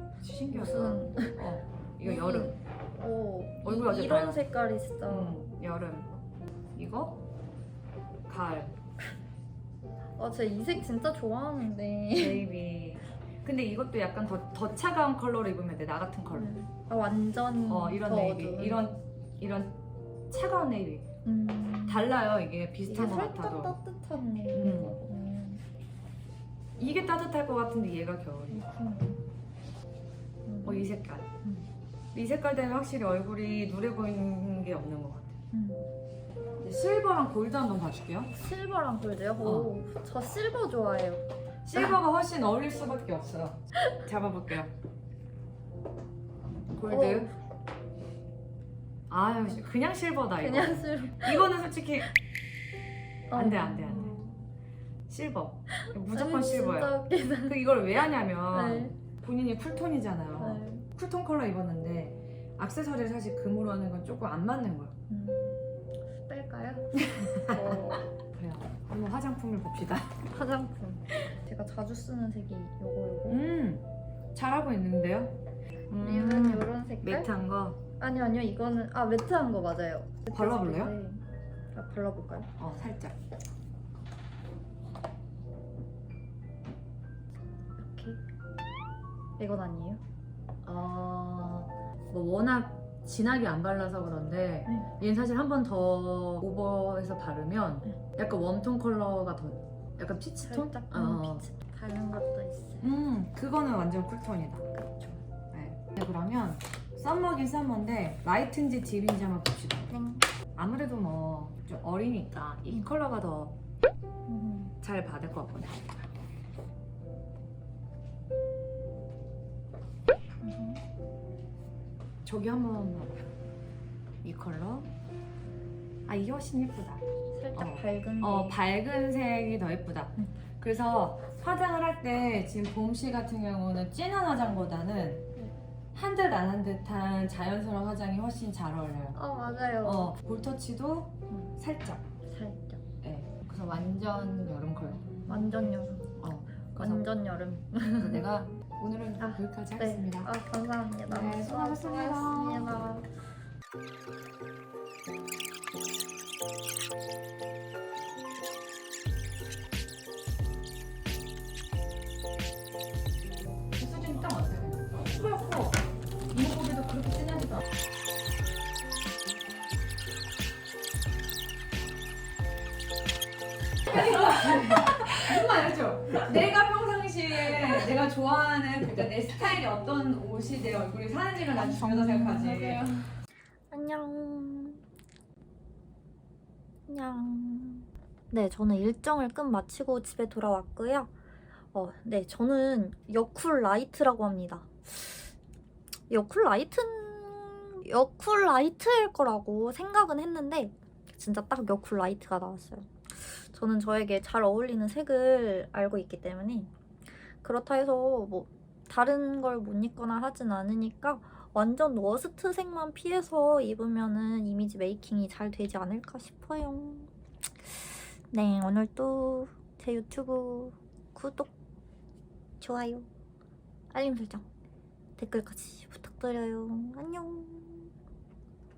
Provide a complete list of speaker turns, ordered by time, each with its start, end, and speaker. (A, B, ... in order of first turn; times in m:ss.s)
0:00.2-0:02.6 A
0:00.5-0:01.4 B
0:02.0-0:05.4 B
0:03.6-0:04.4 A
0:05.1-0:06.1 A
0:06.8-0:07.2 A
0:08.3-0:08.7 A
0:10.2-0:12.5 B
0:12.1-0:16.5 A
0:16.3-0:18.8 B
0:17.7-0:19.8 A
0:20.3-0:21.0 A
0:21.2-0:22.1 B
0:21.9-0:23.8 A
0:22.9-0:25.6 B
0:24.5-0:25.0 A
0:26.8-0:28.6 A
0:28.5-0:29.2 B
0:30.5-0:30.9 B
0:30.6-0:31.3 A
0:31.4-0:31.7 B
0:32.1-0:35.3 A
0:35.5-0:35.9 B
0:36.6-0:38.3 A
0:38.3-0:41.9 B
0:39.4-0:39.7 A
0:41.6-0:44.7 A
0:46.8-0:47.3 A
0:46.9-0:47.4 B
0:49.1-0:52.1 A
0:50.4-0:51.5 B
0:53.3-0:54.4 B
0:53.3-0:54.2 A
0:55.1-0:56.9 A
0:55.7-0:57.6 B
0:57.5-1:04.9 A
0:58.5-0:58.9 B
1:00.4-1:00.8 B
1:05.1-1:05.6 B
1:06.1-1:08.1 B
1:07.1-1:10.2 A
1:10.2-1:13.4 B
1:13.3-1:15.4 A
1:15.9-1:17.8 A
1:15.9-1:17.3 B
1:18.0-1:22.5 B
1:20.3-1:20.9 A
1:22.6-1:23.2 A
1:27.8-1:28.2 B
1:29.4-1:30.0 B
1:30.6-1:41.4 A
1:40.4-1:42.8 B
1:42.8-1:44.7 A
1:44.8-1:45.2 B
1:45.5-1:49.9 A
1:49.9-1:50.3 B
1:50.6-1:53.6 A
1:54.3-1:54.8 B
1:54.8-1:56.0 A
2:00.4-2:00.8 B
2:02.2-2:03.3 A
2:04.2-2:04.9 A
2:06.0-2:15.2 A
2:07.3-2:08.6 B
2:15.9-2:19.2 A
2:19.1-2:20.1 B
2:19.8-2:22.0 A
2:22.2-2:22.8 B
2:23.0-2:27.0 A
2:25.2-2:26.1 B
2:26.8-2:28.3 B
2:28.0-2:30.3 A
2:29.2-2:33.1 B
2:31.1-2:32.9 A
2:43.8-2:47.6 A
2:53.9-3:02.9 A
3:01.5-3:03.1 B
3:03.7-3:04.8 B
3:06.9-3:11.1 B
3:11.7-3:15.3 B
3:16.1-3:26.7 B
3:27.2-3:37.1 B
3:37.6-3:41.5 B
3:42.6-3:43.1 B
3:43.9-3:44.4 B
3:45.2-3:47.9 B